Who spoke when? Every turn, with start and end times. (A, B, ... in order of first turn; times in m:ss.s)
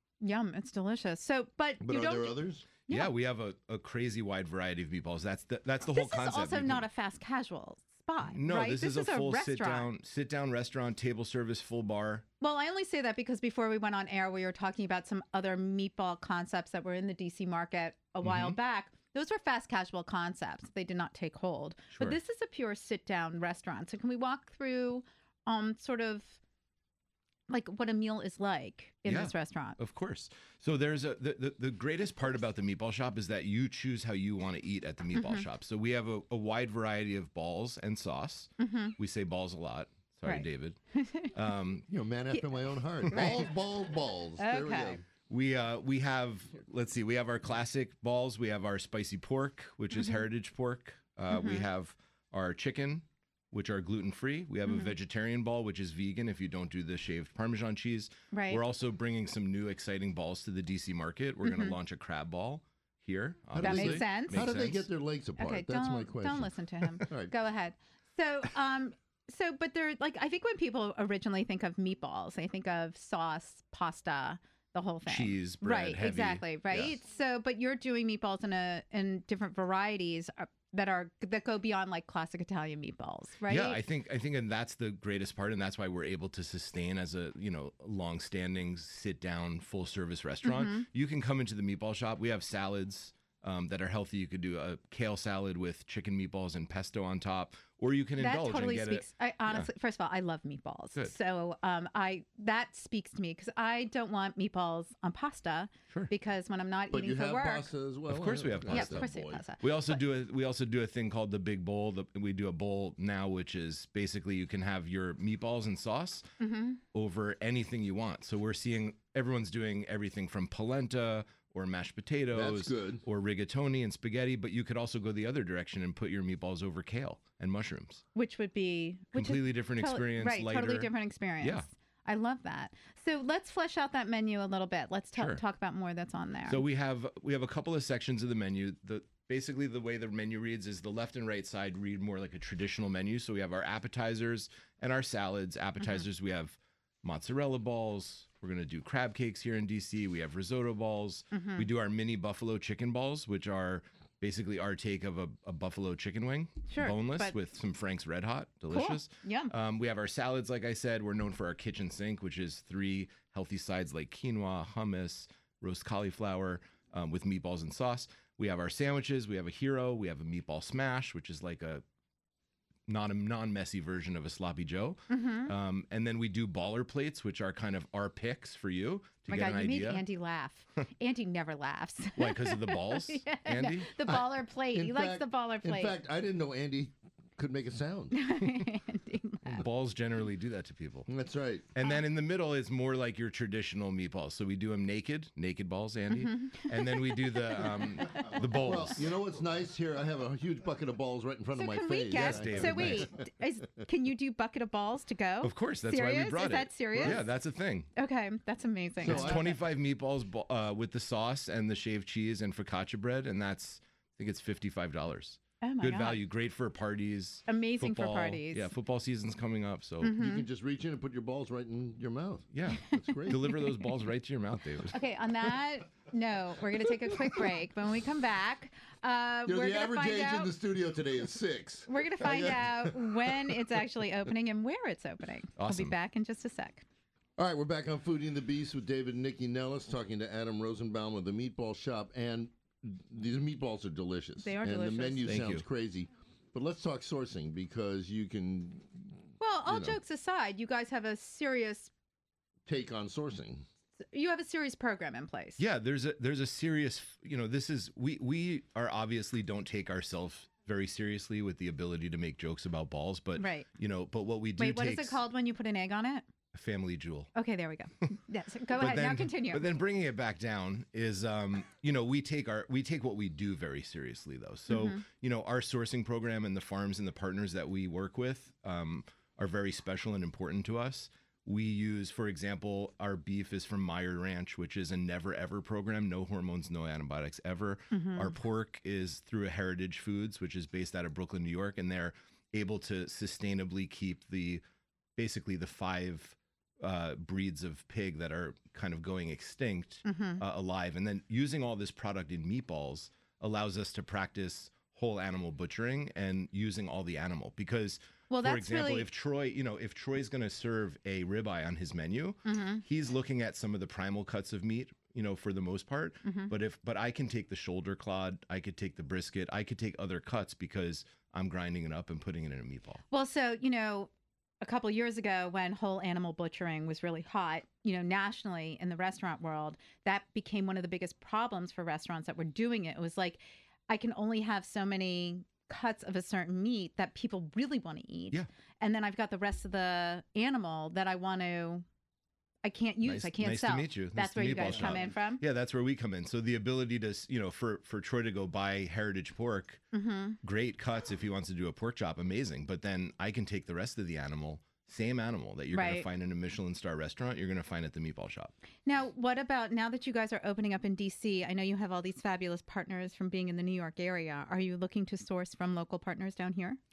0:00.2-0:03.1 A
0:01.8-0:02.7 B
0:02.9-0:06.8 C
0:05.9-0:09.9 A
0:08.3-0:12.2 C
0:12.4-0:26.4 A
0:18.2-0:18.6 C
0:27.5-0:29.8 A
0:29.0-0:40.8 C
0:35.1-0:35.5 A
0:38.6-0:38.9 A
0:40.2-0:41.3 A
0:41.3-0:41.9 C
0:41.9-0:45.0 B
0:43.1-0:43.4 C
0:43.1-0:43.5 A
0:44.4-0:45.0 A
0:45.2-1:04.9 C
0:49.9-0:50.2 A
0:51.3-0:51.6 A
0:54.6-0:54.9 A
0:58.3-0:58.6 A
1:01.4-1:01.8 A
1:03.5-1:07.3 B
1:03.6-1:04.7 A
1:05.4-1:23.8 A
1:15.0-1:17.0 C
1:23.5-1:39.7 C
1:30.4-1:30.9 A
1:38.2-1:47.7 A
1:46.9-1:49.4 B
1:48.1-1:56.3 C
1:48.7-1:50.0 A
1:56.4-1:56.8 A
1:56.9-2:08.0 C
2:02.3-2:03.0 B
2:08.1-2:16.6 A
2:09.1-2:11.7 C
2:15.1-2:15.4 C
2:16.5-2:51.8 C
2:31.3-2:31.7 A
2:36.7-2:37.3 A
2:38.7-2:39.5 A
2:52.9-3:00.0 C
2:55.1-2:55.5 A
2:59.3-3:06.0 A
3:02.2-3:03.9 C
3:04.0-3:08.2 B
3:08.1-3:09.6 A
3:09.6-3:11.1 C
3:11.1-3:11.7 B
3:11.7-3:19.1 C
3:16.1-3:18.8 A
3:18.1-3:23.3 B
3:21.5-3:27.3 A
3:22.1-3:23.1 C
3:25.4-3:27.9 C
3:26.9-3:27.2 B
3:27.9-3:29.6 A
3:29.0-3:29.5 B
3:29.0-3:40.2 C
3:35.6-3:36.2 A
3:37.5-3:38.7 A
3:40.0-3:40.4 A
3:40.2-3:43.5 B
3:42.5-3:45.0 C
3:42.9-3:43.9 A
3:44.9-3:50.5 A
3:49.4-3:53.6 B
3:51.9-3:56.8 A
3:55.6-3:55.9 C
3:57.4-4:10.0 B
4:04.4-4:05.3 A
4:05.2-4:05.6 C
4:09.4-4:11.9 A
4:12.6-4:13.6 B
4:14.1-4:15.6 A
4:15.6-4:25.2 C
4:23.4-4:23.7 A
4:24.6-4:26.2 A
4:26.5-4:27.3 C
4:27.3-4:29.7 A
4:28.7-4:54.6 C
4:34.7-4:35.0 A
4:47.9-4:48.3 A
4:55.2-5:23.0 C
5:00.0-5:00.4 A
5:08.3-5:09.1 A
5:12.4-5:12.8 A
5:16.2-5:16.5 A
5:23.1-5:24.1 A
5:24.6-5:41.8 A
5:42.6-5:45.4 A
5:43.0-5:49.8 C
5:49.9-5:50.4 A
5:50.4-5:58.5 C
5:55.7-5:56.1 A
5:58.8-6:06.8 A